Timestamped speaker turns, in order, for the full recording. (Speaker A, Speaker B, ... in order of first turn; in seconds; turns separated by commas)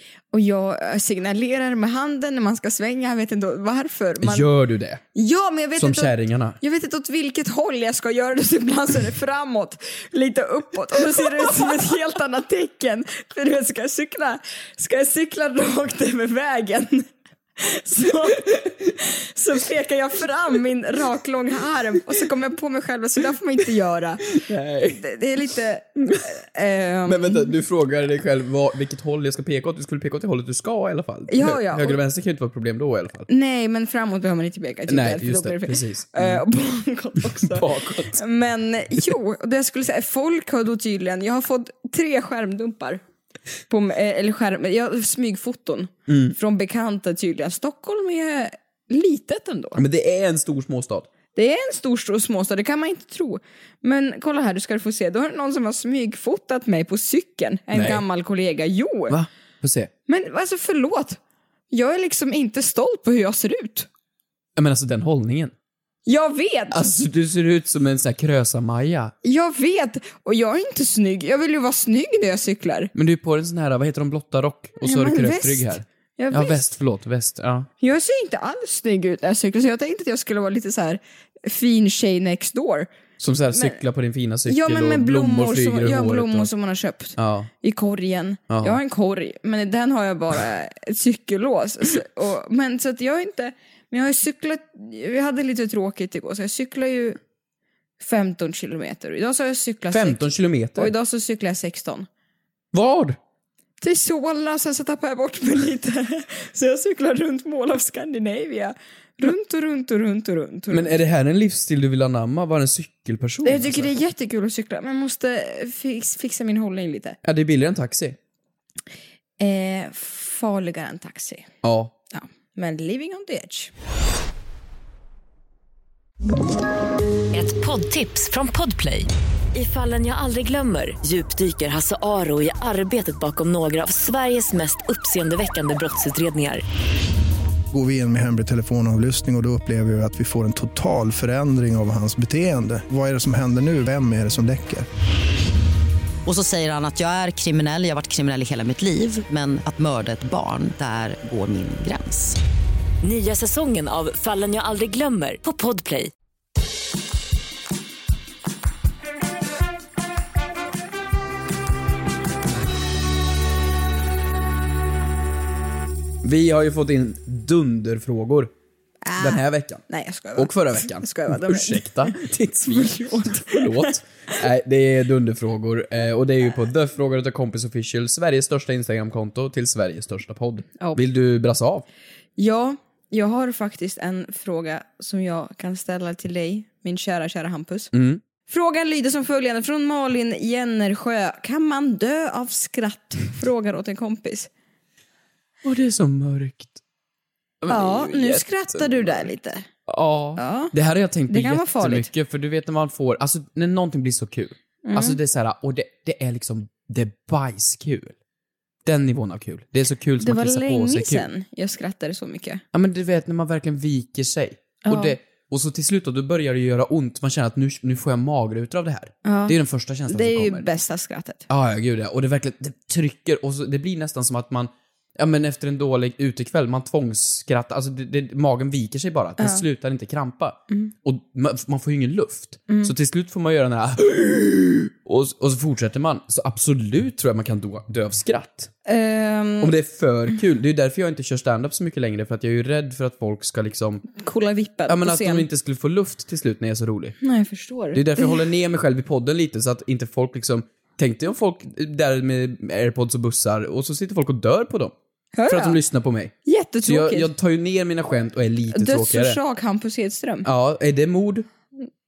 Speaker A: 0.3-4.5, Speaker B: 4.2-5.0, Speaker A: 5.1-24.4, Speaker B: 5.8-6.6, Speaker B: 24.4-25.0, Speaker A: 25.0-27.5, Speaker B: 27.1-33.3, Speaker A: 31.3-32.0, Speaker A: 33.3-43.0, Speaker B: 34.9-36.4, Speaker B: 37.2-38.2, Speaker A: 43.7-49.8, Speaker B: 46.1-46.4, Speaker B: 49.7-51.1, Speaker A: 51.4-59.2, Speaker B: 57.7-58.0, Speaker B: 59.1-59.9, Speaker A: 60.1-61.2, Speaker A: 61.7-63.9, Speaker B: 64.5-65.5, Speaker A: 66.0-66.9, Speaker B: 66.7-69.1, Speaker A: 69.2-72.9, Speaker B: 72.9-77.7, Speaker A: 74.8-76.6, Speaker A: 77.8-82.9, Speaker B: 83.2-86.5, Speaker A: 83.5-83.8, Speaker A: 84.5-97.2, Speaker B: 87.2-87.5, Speaker B: 88.5-88.8, Speaker A: 98.0-100.2, Speaker B: 99.9-100.9, Speaker A: 100.8-102.1, Speaker B: 102.7-103.2, Speaker A: 103.8-111.0, Speaker B: 110.7-113.9, Speaker A: 113.4-117.2, Speaker B: 117.2-118.2, Speaker A: 119.4-121.5, Speaker B: 121.6-121.9, Speaker A: 122.1-123.7, Speaker C: 127.3-136.6, Speaker D: 137.7-144.9, Speaker E: 146.2-152.4, Speaker C: 153.0-156.1, Speaker B: 166.2-168.5, Speaker A: 169.0-172.1, Speaker B: 169.1-169.8, Speaker B: 170.3-181.8, Speaker A: 172.7-174.0, Speaker A: 182.4-187.9, Speaker B: 187.9-188.2, Speaker A: 188.5-194.5, Speaker B: 195.6-196.8, Speaker B: 197.6-199.3, Speaker A: 197.7-199.7, Speaker B: 199.9-208.1, Speaker A: 200.4-200.7, Speaker A: 201.3-202.1, Speaker A: 204.8-205.2, Speaker B: 208.8-211.2, Speaker A: 210.2-212.6, Speaker B: 212.7-220.7, Speaker A: 214.8-215.2, Speaker A: 219.2-221.4, Speaker B: 221.5-238.7, Speaker A: 229.4-229.6, Speaker A: 232.7-232.9, Speaker A: 238.8-239.7, Speaker B: 239.6-244.0, Speaker A: 244.2-245.4, Speaker B: 244.9-247.2, Speaker A: 247.2-248.4, Speaker B: 247.9-254.9, Speaker A: 255.4-255.8, Speaker B: 255.5-259.4, Speaker A: 256.4-257.3, Speaker A: 258.7-260.5, Speaker B: 260.4-261.4